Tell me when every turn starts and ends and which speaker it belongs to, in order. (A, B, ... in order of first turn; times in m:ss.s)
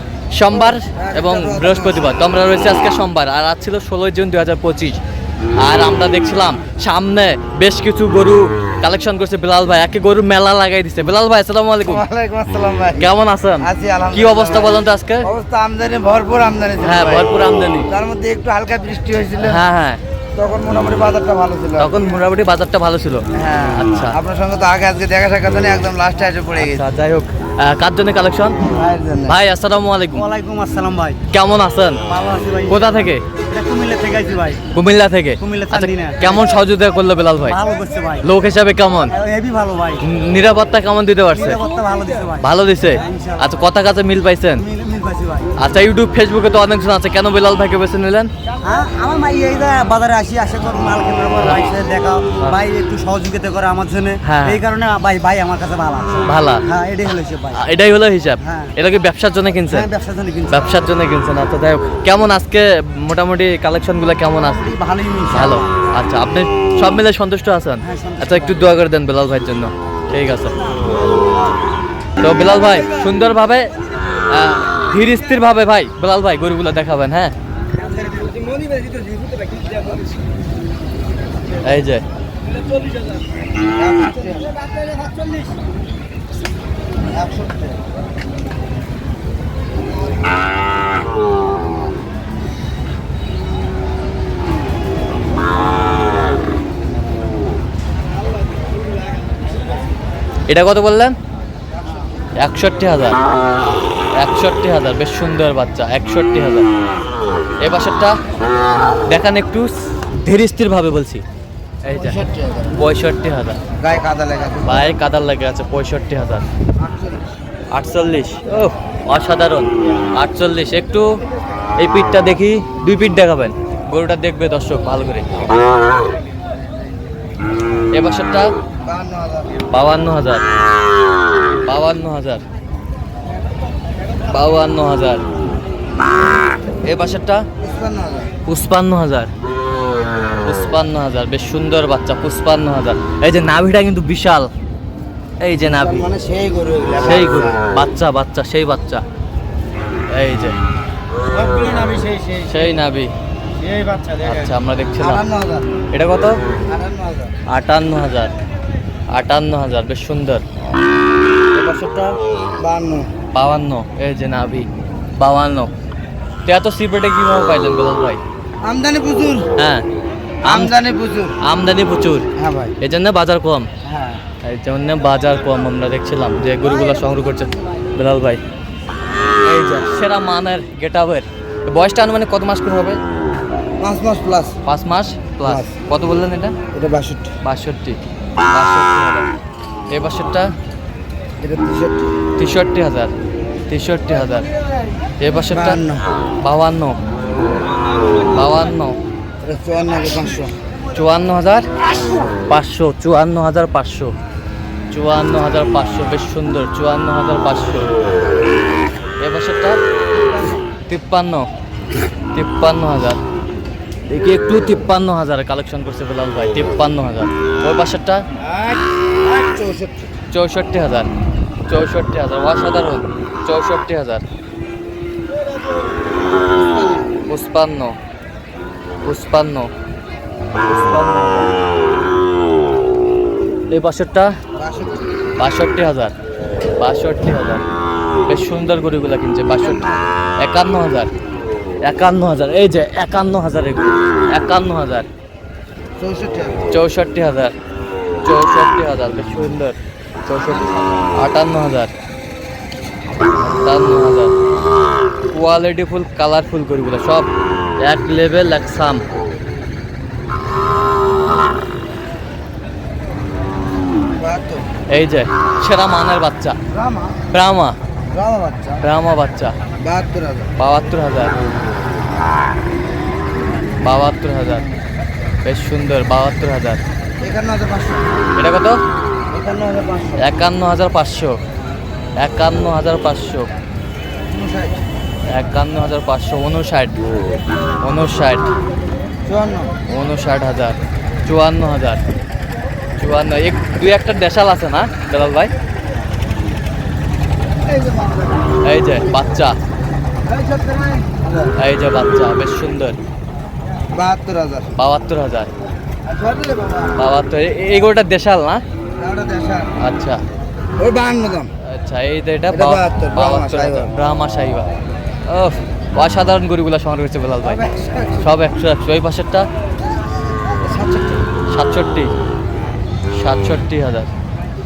0:00.3-0:05.0 A
0:00.5-0:02.1 B
0:05.6-0:12.0 A
0:11.8-0:17.3 B
0:13.0-0:15.3 A
0:16.8-0:17.9 A
0:17.8-0:19.6 B
0:19.4-0:20.0 A
0:20.3-0:22.1 B
0:21.8-0:23.2 A
0:23.3-0:26.9 B
0:23.7-0:24.2 A
0:26.6-0:28.7 A
0:28.7-0:29.4 B
0:29.3-0:30.3 A
0:30.1-0:31.2 C
0:31.3-0:32.0 A
0:32.0-0:34.7 C
0:32.7-0:33.2 A
0:34.7-0:37.6 A
0:35.4-0:36.6 C
0:37.4-0:38.3 C
0:38.2-0:39.1 A
0:39.0-0:40.0 C
0:40.0-0:41.6 A
0:41.3-0:43.7 C
0:42.4-0:44.6 A
0:44.6-0:45.6 C
0:45.6-0:48.3 A
0:48.6-0:57.6 C
0:51.4-0:51.7 A
0:54.2-0:54.6 A
0:56.2-0:56.6 A
0:57.5-0:59.9 A
0:58.4-0:58.8 C
0:59.6-1:01.0 C
1:00.5-1:04.6 A
1:04.4-1:05.7 C
1:05.3-1:10.6 A
1:07.8-1:08.7 C
1:12.2-1:13.7 A
1:14.2-1:17.3 A
1:17.8-1:19.9 C
1:18.4-1:20.0 B
1:21.6-1:22.0 A
1:23.6-1:24.6 B
1:27.1-1:27.8 B
1:40.5-1:41.2 A
1:42.4-1:43.2 A
1:44.2-1:46.7 A
1:47.6-1:48.2 A
1:49.0-1:51.2 A
1:51.8-1:52.2 A
1:51.9-1:52.8 B
1:52.7-1:53.6 A
1:53.8-1:55.0 B
1:54.6-1:56.5 A
1:56.8-1:57.3 B
1:57.7-2:01.2 A
2:01.8-2:05.4 A
2:07.9-2:08.5 A
2:08.8-2:09.6 B
2:09.7-2:10.4 A
2:11.6-2:12.4 A
2:14.3-2:15.2 A
2:16.8-2:17.4 A
2:17.6-2:18.3 B
2:18.5-2:19.3 A
2:20.4-2:24.5 A
2:25.4-2:26.1 A
2:25.5-2:27.6 B
2:27.0-2:29.0 A
2:30.1-2:30.6 A
2:31.4-2:31.8 C
2:31.4-2:32.4 B
2:32.4-2:33.1 A
2:33.6-2:34.2 B
2:34.2-2:35.2 A
2:35.0-2:35.7 B
2:35.9-2:36.4 A
2:36.7-2:37.3 B
2:37.5-2:38.3 A
2:39.1-2:40.4 A
2:41.6-2:43.1 B
2:43.3-2:45.7 A
2:46.4-2:48.2 A
2:48.6-2:49.5 B
2:49.6-2:49.8 A
2:50.4-2:51.4 B
2:50.4-2:50.7 A
2:51.4-2:52.2 A
2:52.3-2:52.8 B
2:52.8-2:53.7 A
2:53.8-2:54.2 B
2:54.4-2:58.4 A
2:59.4-3:03.0 A
3:03.8-3:04.6 B
3:04.6-3:06.5 A
3:05.4-3:05.7 B
3:06.7-3:07.3 B
3:07.4-3:08.0 A
3:08.5-3:09.3 A
3:09.9-3:10.5 A
3:11.4-3:12.1 B
3:12.4-3:13.1 A
3:13.7-3:14.5 A
3:15.2-3:15.8 A
3:15.5-3:16.0 B
3:16.4-3:17.0 A
3:18.3-3:19.0 A
3:19.4-3:20.5 B
3:20.9-3:21.7 A
3:22.4-3:24.1 A
3:24.9-3:27.9 A
3:29.2-3:29.8 A
3:30.9-3:31.5 A
3:32.3-3:33.2 A
3:34.1-3:38.2 A
3:38.4-3:40.1 B
3:40.3-3:41.1 A
3:41.7-3:44.2 A
3:47.3-3:48.0 A
3:49.0-3:49.7 A
3:50.6-3:51.6 A
3:53.7-3:54.4 A
3:54.6-3:55.0 B
3:55.4-3:56.1 A
3:56.8-3:57.6 A
3:58.3-3:59.8 A
3:59.6-4:00.1 B
4:00.4-4:01.1 A
4:01.8-4:05.1 A
4:06.0-4:06.6 B
4:06.7-4:07.5 A
4:08.2-4:11.9 A
4:13.4-4:14.3 A
4:15.3-4:19.0 A
4:24.2-4:24.7 B
4:24.9-4:26.6 A
4:26.7-4:27.2 B
4:27.3-4:27.8 A
4:28.1-4:28.8 B
4:28.8-4:29.5 A
4:29.8-4:30.5 B
4:30.6-4:31.4 A
4:33.8-4:34.7 A
4:35.4-4:36.8 A
4:37.2-4:38.2 B
4:38.4-4:38.8 A
4:39.3-4:40.3 B
4:40.2-4:41.4 A
4:42.2-4:43.5 A
4:44.3-4:44.8 B
4:45.3-4:47.0 A
4:47.8-4:48.5 A
4:49.2-4:49.8 B
4:49.9-4:52.0 A
4:53.0-4:55.5 A
4:57.6-4:58.6 B
4:58.6-4:59.6 A
5:00.2-5:01.6 B
5:01.6-5:03.0 A
5:03.9-5:04.7 B
5:04.8-5:05.5 A
5:06.0-5:07.0 B
5:07.0-5:08.6 A
5:09.0-5:09.7 B
5:09.8-5:10.2 A
5:10.8-5:11.5 B
5:11.6-5:14.7 A
5:12.5-5:14.0 B
5:15.3-5:17.6 A
5:17.4-5:18.3 B
5:18.2-5:19.5 A
5:20.6-5:21.2 B
5:21.5-5:22.1 A
5:23.1-5:24.1 A